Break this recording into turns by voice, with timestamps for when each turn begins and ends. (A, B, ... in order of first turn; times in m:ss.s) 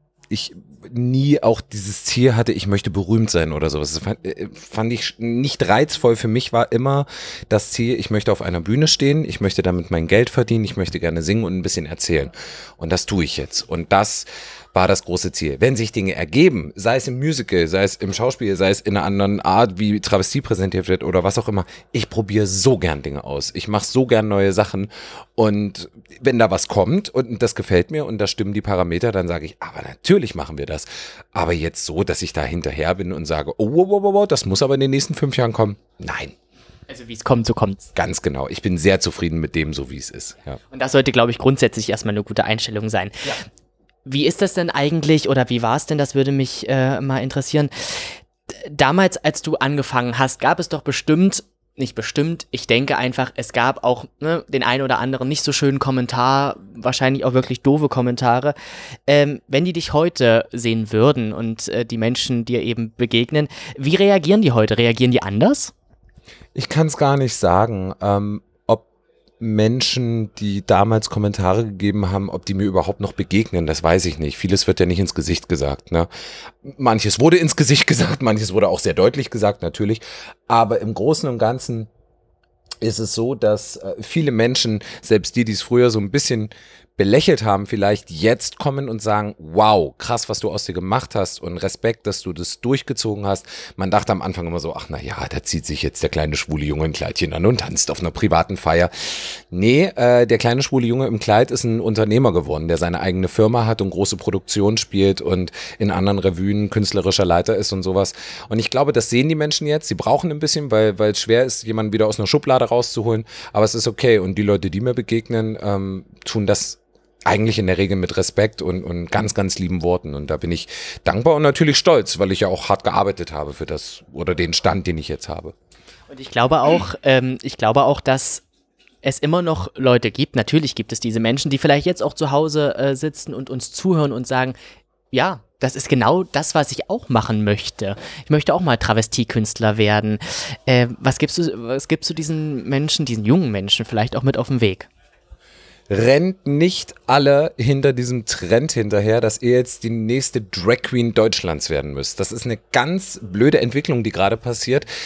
0:00.3-0:36.3 A
0:36.9-0:37.9 B
0:38.0-0:40.6 A
0:40.7-0:43.4 B
0:44.0-0:58.6 B
0:59.1-1:05.7 B
1:06.6-1:08.9 A
1:09.4-1:16.1 A
1:16.6-1:21.9 A
1:22.8-2:05.5 A
2:06.1-2:08.4 B
2:09.0-2:14.6 B
2:15.1-2:24.9 B
2:25.9-2:34.9 A